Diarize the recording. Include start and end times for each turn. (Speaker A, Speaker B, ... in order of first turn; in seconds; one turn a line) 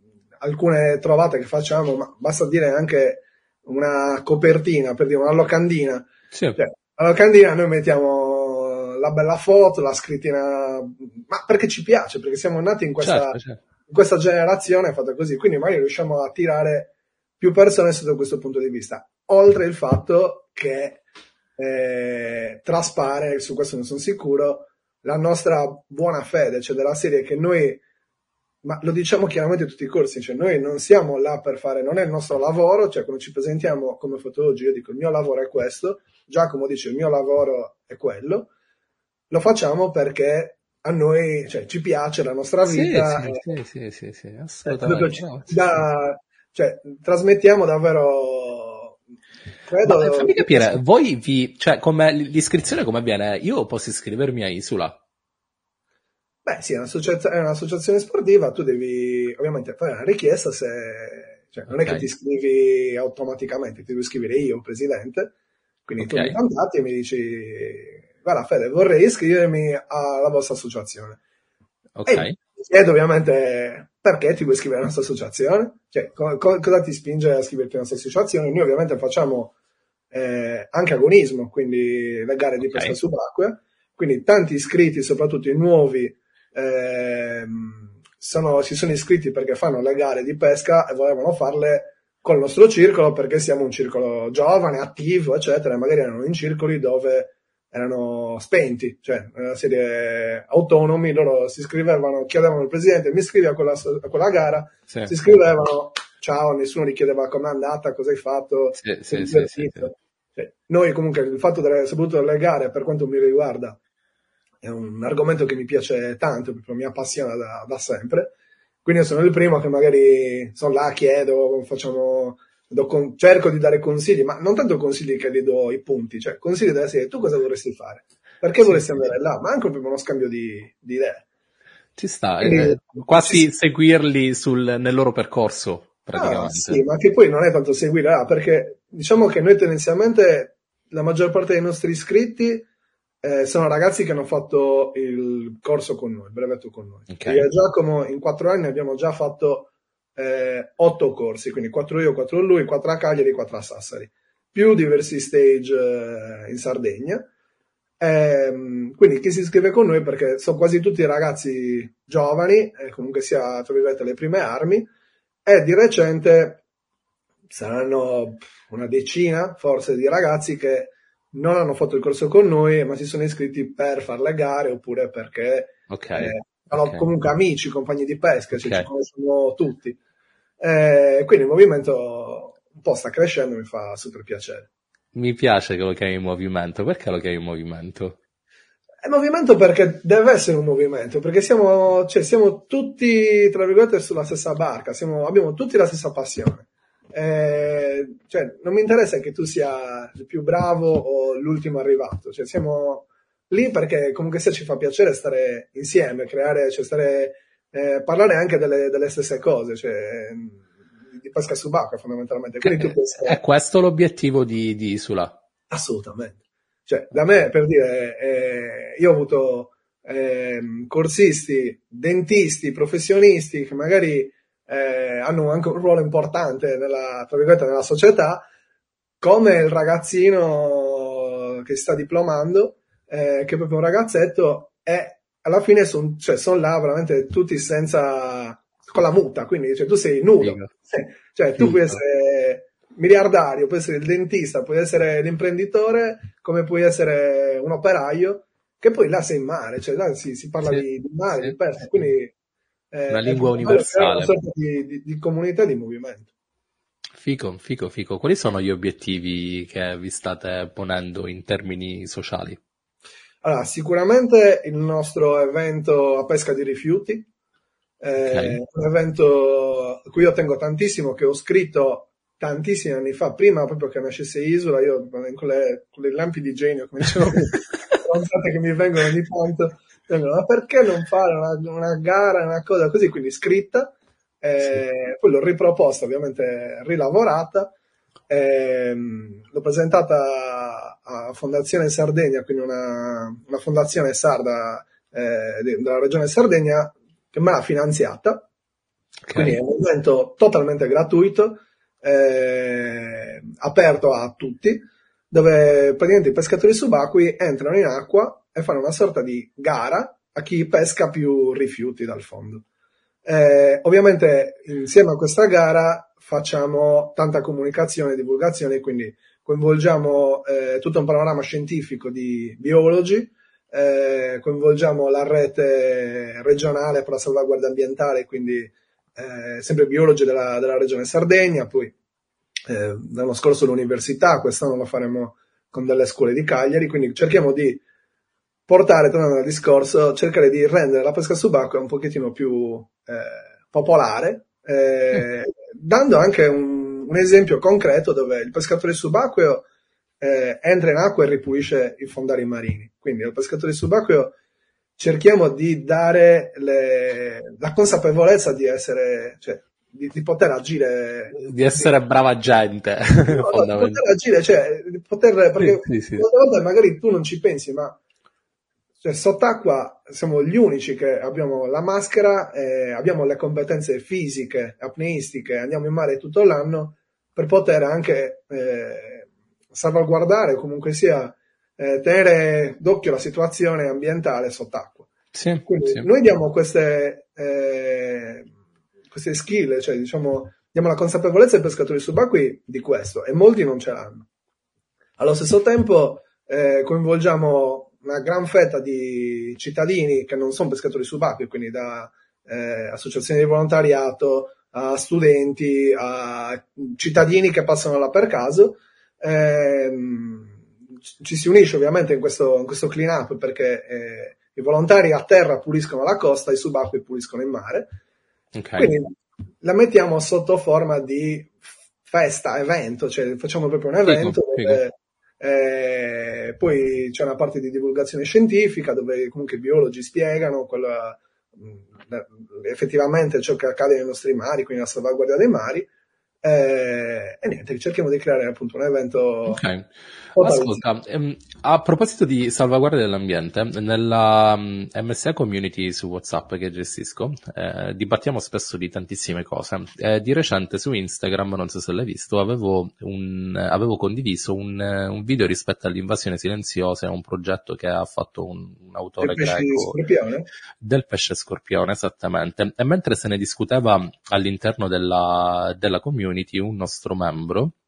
Speaker A: 0.4-21.0
Speaker B: 6.3-6.6
Speaker B: 13.0-13.6
Speaker A: 21.6-27.8
Speaker A: 28.6-38.5
Speaker A: 39.3-43.5
Speaker B: 42.7-45.6
Speaker A: 44.6-49.0
Speaker A: 49.7-50.8
Speaker B: 49.8-55.0
Speaker A: 56.5-65.3
Speaker B: 61.7-62.1
Speaker A: 65.9-71.2
Speaker B: 66.0-66.4
Speaker B: 72.0-72.4
Speaker A: 72.1-79.5
Speaker A: 80.1-113.8
Speaker B: 82.6-82.9
Speaker B: 104.9-105.3
Speaker B: 108.8-109.9
Speaker A: 114.6-118.3
Speaker A: 118.8-131.2
Speaker B: 128.6-129.0
Speaker B: 132.0-136.8
Speaker A: 132.4-133.5
Speaker A: 136.2-142.7
Speaker A: 143.2-157.3
Speaker B: 147.1-147.5
Speaker A: 158.0-164.9
Speaker A: 165.5-166.6
Speaker A: 167.5-180.0
Speaker B: 175.9-177.1
Speaker B: 178.5-178.9
Speaker A: 180.6-184.7
Speaker B: 185.1-188.2
Speaker A: 189.0-210.6
Speaker A: 211.2-213.4
Speaker B: 212.6-215.3
Speaker A: 215.7-228.4
Speaker A: 229.2-252.3
Speaker B: 240.4-240.7
Speaker B: 241.6-242.0
Speaker A: 252.9-256.3
Speaker B: 253.1-254.3
Speaker B: 257.2-262.6
Speaker A: 263.4-267.3
Speaker A: 268.0-287.7
Speaker B: 268.2-268.6
Speaker A: 288.3-298.5
Speaker B: 299.3-299.6
Speaker A: 299.4-312.6
Speaker A: 313.2-331.9
Speaker A: 332.7-337.8
Speaker A: 338.7-349.7
Speaker A: 350.2-354.4
Speaker A: 355.0-361.9
Speaker B: 361.3-364.0
Speaker A: 363.3-368.0
Speaker B: 365.6-366.3
Speaker A: 369.0-385.1
Speaker B: 385.3-386.1
Speaker A: 385.6-388.5
Speaker A: 389.1-394.3
Speaker A: 395.2-410.6
Speaker A: 411.2-418.0
Speaker B: 418.6-418.9
Speaker A: 418.8-435.9
Speaker B: 424.1-424.8
Speaker A: 436.4-439.6
Speaker B: 439.5-460.0
Speaker A: 440.4-440.8
Speaker A: 459.2-460.5
Speaker B: 460.8-467.7